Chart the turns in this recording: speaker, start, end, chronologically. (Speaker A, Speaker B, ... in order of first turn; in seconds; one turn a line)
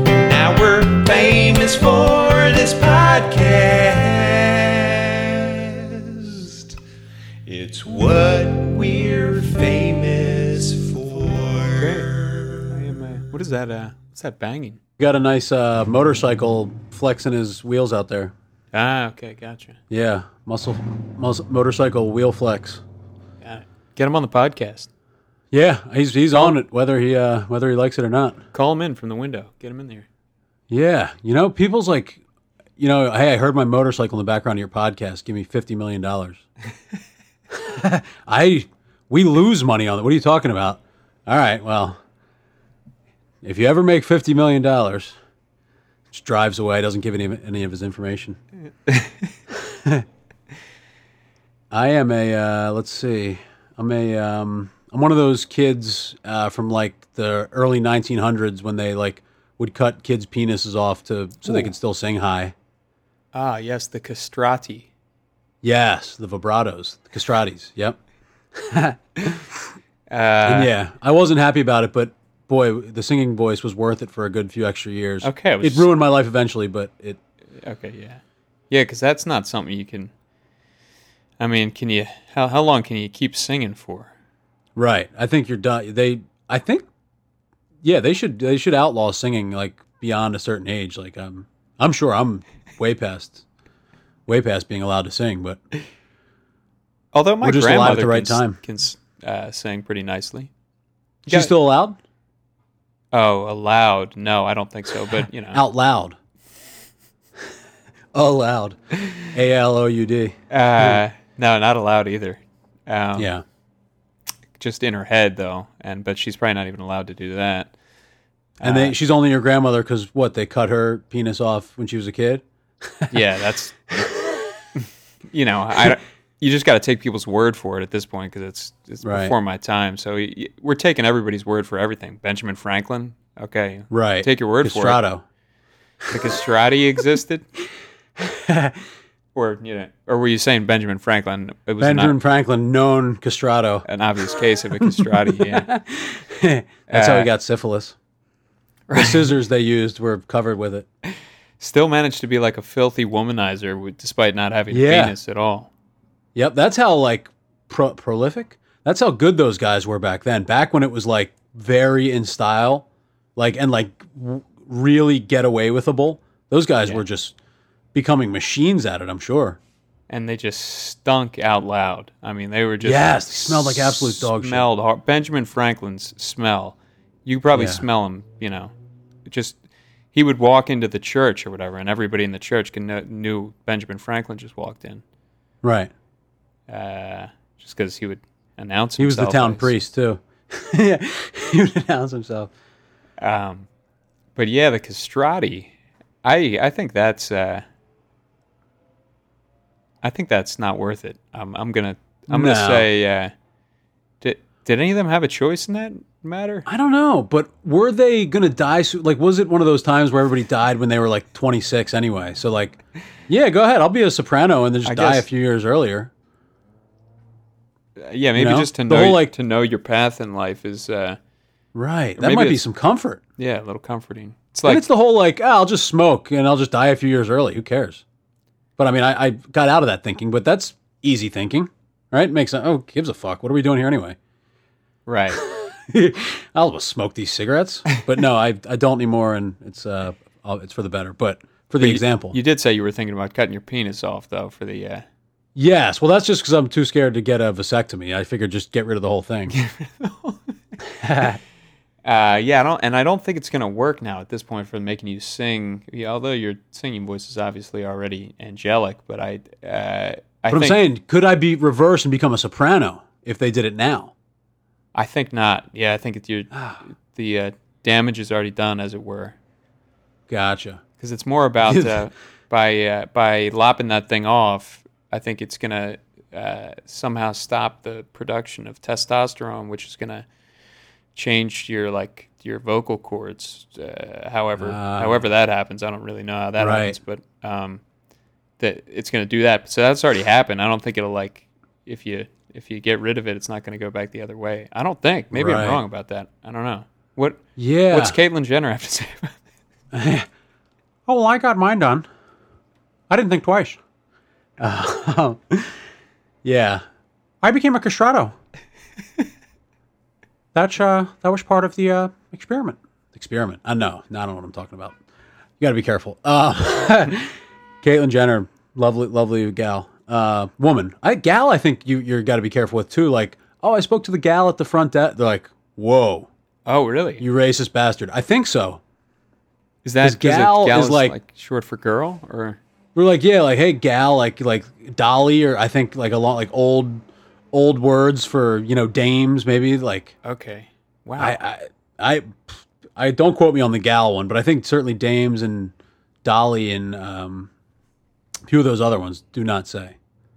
Speaker A: 0.2-6.7
Speaker A: 7.5-13.0
Speaker B: 11.8-12.1
Speaker B: 12.7-14.8
Speaker C: 15.0-18.3
Speaker B: 18.7-19.8
Speaker C: 19.9-22.8
Speaker B: 23.4-24.9
Speaker C: 25.5-28.4
Speaker B: 28.5-30.1
Speaker C: 30.7-32.2
Speaker C: 32.8-36.4
Speaker C: 37.5-42.0
Speaker C: 43.4-45.1
Speaker C: 46.1-48.4
Speaker B: 48.9-49.1
Speaker C: 49.6-50.0
Speaker C: 51.7-62.5
Speaker B: 63.3-64.9
Speaker C: 65.6-68.0
Speaker C: 68.5-69.6
Speaker B: 70.1-70.7
Speaker C: 70.5-77.2
Speaker B: 75.2-75.9
Speaker B: 77.6-80.1
Speaker B: 81.4-84.1
Speaker C: 84.8-86.8
Speaker C: 87.8-93.4
Speaker C: 94.3-95.6
Speaker B: 97.1-100.5
Speaker C: 97.4-98.6
Speaker C: 101.2-102.0
Speaker B: 103.1-105.6
Speaker C: 105.5-106.2
Speaker C: 108.1-111.0
Speaker B: 110.5-113.3
Speaker C: 113.2-113.4
Speaker B: 114.6-117.7
Speaker B: 118.6-118.9
Speaker C: 118.6-123.1
Speaker B: 123.1-123.8
Speaker B: 125.3-135.0
Speaker C: 129.0-129.3
Speaker C: 133.9-135.2
Speaker B: 136.1-137.4
Speaker C: 138.2-138.8
Speaker B: 139.3-142.2
Speaker C: 141.8-143.8
Speaker B: 143.8-145.7
Speaker C: 144.8-147.9
Speaker B: 146.9-147.3
Speaker B: 148.9-149.2
Speaker C: 148.9-150.8
Speaker B: 151.6-155.7
Speaker C: 154.7-155.1
Speaker C: 156.3-167.3
Speaker C: 167.9-169.6
Speaker B: 170.1-178.7
Speaker C: 172.8-174.6
Speaker C: 177.5-177.8
Speaker B: 179.2-179.6
Speaker B: 180.1-185.0
Speaker C: 185.6-185.9
Speaker B: 186.7-189.7
Speaker C: 189.0-192.5
Speaker B: 193.2-193.7
Speaker B: 194.3-195.7
Speaker B: 196.2-197.6
Speaker B: 200.0-203.3
Speaker C: 202.3-202.8
Speaker B: 204.2-206.7
Speaker C: 206.7-216.1
Speaker B: 214.8-215.2
Speaker B: 218.0-221.2
Speaker C: 218.3-219.3
Speaker C: 221.7-223.2
Speaker B: 222.2-222.6
Speaker B: 223.4-224.9
Speaker C: 224.6-228.0
Speaker C: 228.8-234.2
Speaker B: 235.1-235.4
Speaker C: 235.3-242.3
Speaker B: 241.8-245.0
Speaker C: 245.6-249.5
Speaker B: 249.5-250.5
Speaker C: 251.0-251.4
Speaker B: 252.0-260.8
Speaker C: 260.5-264.1
Speaker B: 264.9-269.4
Speaker C: 266.5-266.8
Speaker C: 270.3-270.8
Speaker B: 271.0-280.2
Speaker C: 271.7-272.0
Speaker B: 281.1-287.8
Speaker C: 284.6-285.2
Speaker C: 286.6-286.9
Speaker B: 288.6-299.4
Speaker C: 295.3-295.8
Speaker C: 297.6-298.2
Speaker C: 299.9-300.3
Speaker C: 301.1-302.1
Speaker C: 303.1-303.8
Speaker C: 304.6-305.8
Speaker C: 306.4-306.8
Speaker C: 307.4-308.3
Speaker C: 310.5-314.9
Speaker C: 315.6-326.3
Speaker B: 326.6-327.2
Speaker C: 327.2-328.8
Speaker B: 329.8-332.6
Speaker C: 330.0-331.1
Speaker C: 332.9-340.1
Speaker B: 340.2-341.4
Speaker C: 341.2-345.7
Speaker C: 346.2-347.5
Speaker C: 348.5-349.9